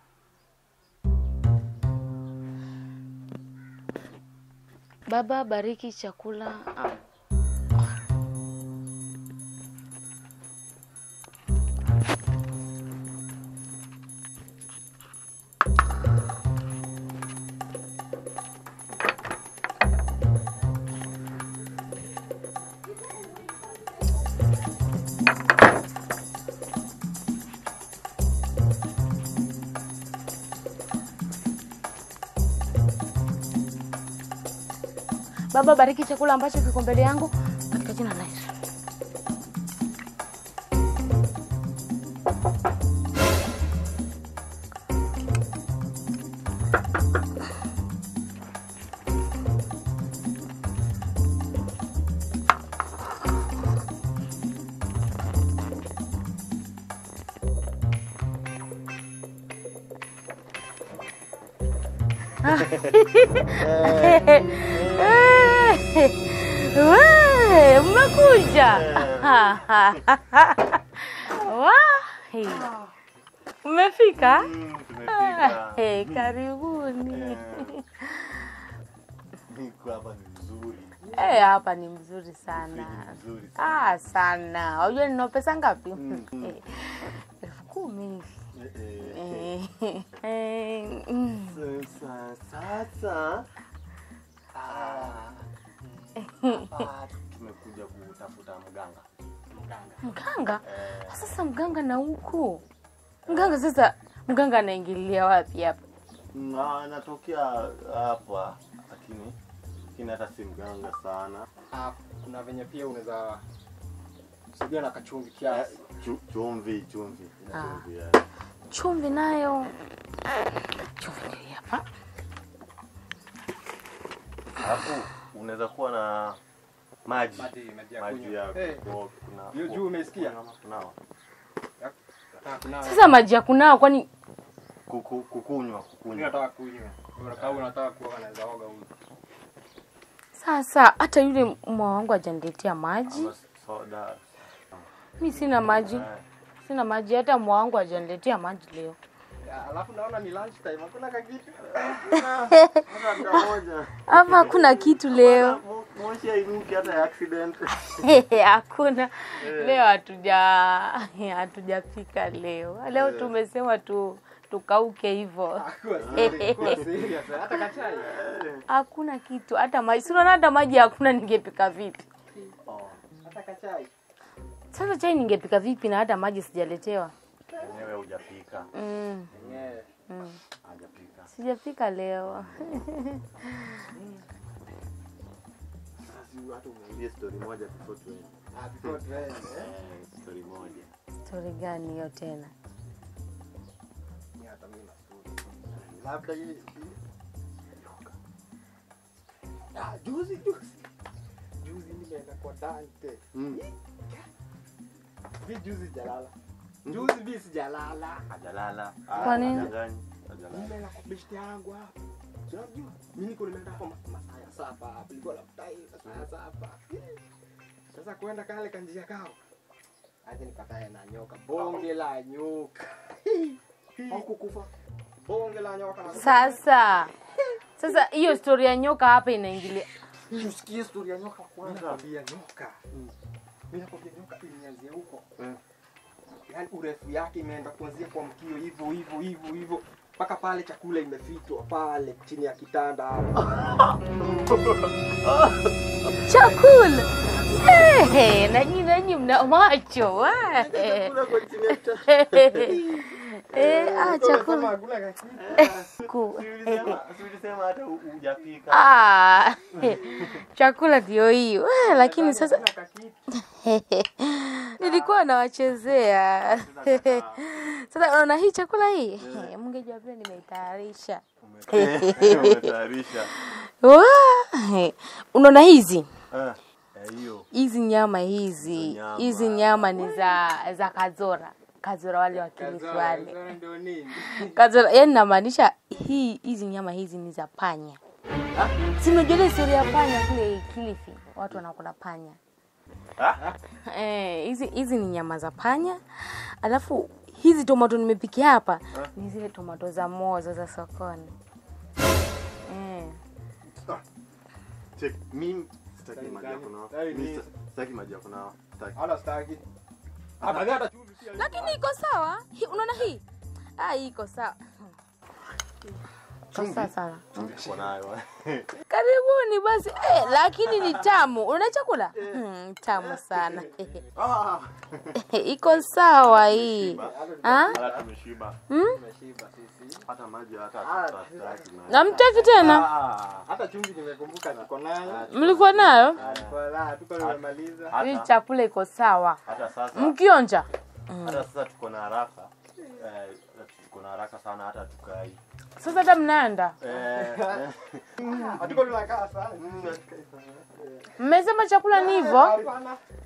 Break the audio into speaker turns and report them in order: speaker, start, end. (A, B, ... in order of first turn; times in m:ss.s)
0:05.1-0:07.0 A
0:35.5-0:38.5 A
1:02.4-1:12.7 A
1:03.5-1:05.5 B
1:08.4-1:10.0 B
1:12.5-1:12.9 B
1:13.6-1:14.5 A
1:14.2-1:16.4 B
1:15.1-1:18.5 A
1:17.1-1:17.8 B
1:19.5-1:21.1 B
1:21.0-1:21.4 C
1:21.1-1:28.4 A
1:22.5-1:24.0 B
1:26.0-1:26.6 B
1:28.5-1:29.5 B
1:29.0-1:31.6 A
1:31.3-1:33.5 B
1:34.5-1:36.8 C
1:34.6-1:35.4 B
1:36.2-1:36.6 A
1:36.4-1:39.0 B
1:39.5-1:40.1 C
1:40.0-1:42.6 A
1:40.6-1:41.2 B
1:43.3-1:43.6 B
1:43.3-1:45.8 A
1:46.3-1:49.4 B
1:49.9-1:51.4 B
1:51.7-1:53.4 C
1:54.5-1:55.8 C
1:55.5-1:58.2 B
1:57.5-1:57.8 A
1:58.7-1:59.8 A
2:00.8-2:01.8 A
2:04.6-2:06.4 B
2:07.0-2:10.9 B
2:07.4-2:08.8 C
2:09.5-2:10.4 C
2:11.8-2:13.2 C
2:12.8-2:14.1 A
2:14.9-2:16.4 B
2:16.1-2:18.9 C
2:20.3-2:23.3 A
2:23.1-2:24.8 B
2:25.2-2:26.1 A
2:25.5-2:26.2 B
2:26.6-2:29.0 A
2:29.4-2:32.3 C
2:31.7-2:38.2 B
2:32.5-2:33.4 A
2:34.0-2:35.6 A
2:38.0-2:46.8 A
2:39.4-2:39.8 B
2:42.9-2:43.3 B
2:45.6-2:48.1 C
2:46.0-2:46.8 B
2:47.8-2:48.6 B
2:48.7-2:52.0 A
2:52.6-2:53.0 B
2:53.2-2:53.9 C
2:54.7-2:57.1 A
2:57.5-2:58.7 B
2:58.7-2:59.3 A
2:59.3-2:59.9 C
2:59.3-2:59.6 B
3:00.1-3:00.4 A
3:00.6-3:01.3 B
3:01.3-3:03.8 A
3:03.9-3:04.2 C
3:06.0-3:07.0 C
3:06.9-3:10.9 B
3:08.5-3:09.7 C
3:11.2-3:12.5 A
3:14.4-3:17.0 C
3:19.7-3:20.9 C
3:21.6-3:24.3 C
3:23.3-3:23.6 B
3:25.4-3:26.3 C
3:26.8-3:28.3 C
3:28.3-3:30.7 B
3:29.1-3:29.7 C
3:29.2-3:29.7 A
3:30.5-3:31.9 C
3:32.5-3:37.2 C
3:37.9-3:39.4 C
3:40.2-3:44.7 C
3:45.2-3:46.6 C
3:46.1-3:47.1 A
3:47.8-3:49.9 A
3:50.3-3:52.8 C
3:51.6-3:52.0 B
3:53.7-3:55.3 C
3:56.4-4:03.8 C
4:03.7-4:05.7 B
4:06.2-4:14.7 A
4:07.3-4:08.3 B
4:10.5-4:14.2 B
4:12.6-4:13.0 C
4:13.5-4:15.7 C
4:15.3-4:19.0 B
4:15.6-4:17.0 A
4:18.7-4:22.6 A
4:19.8-4:20.1 B
4:21.8-4:23.2 C
4:23.3-4:32.7 A
4:24.8-4:25.2 C
4:26.4-4:27.5 B
4:29.2-4:29.5 B
4:31.4-4:33.3 B
4:33.2-4:36.1 A
4:36.3-4:37.5 B
4:37.5-4:43.4 A
4:38.6-4:40.1 B
4:42.3-4:44.6 C
4:44.2-4:48.0 A
4:48.8-4:52.4 A
4:53.7-5:01.4 A
5:02.6-5:03.2 A
5:05.0-5:09.0 B
5:06.1-5:07.5 C
5:08.9-5:09.6 C
5:10.4-5:11.8 C
5:11.2-5:13.2 A
5:13.8-5:14.9 A
5:16.5-5:17.5 A
5:16.5-5:18.7 B
5:17.4-5:17.8 C
5:18.9-5:24.0 A
5:22.1-5:22.4 B
5:23.0-5:28.6 B
5:25.1-5:27.8 A
5:26.8-5:28.1 C
5:28.7-5:29.0 A
5:28.8-5:30.0 C
5:30.0-5:33.4 B
5:30.8-5:35.3 C
5:31.9-5:32.9 A
5:35.0-5:36.6 B
5:35.2-5:36.2 A
5:36.1-5:38.0 C
5:37.2-5:38.3 B
5:38.0-5:41.4 A
5:39.4-5:40.2 B
5:41.2-5:45.4 B
5:45.8-5:46.8 A
5:46.8-5:48.9 B
5:46.9-5:47.6 C
5:48.2-5:50.0 C
5:49.5-5:50.6 B
5:50.8-5:51.2 C
5:51.2-5:52.6 A
5:51.9-5:53.0 C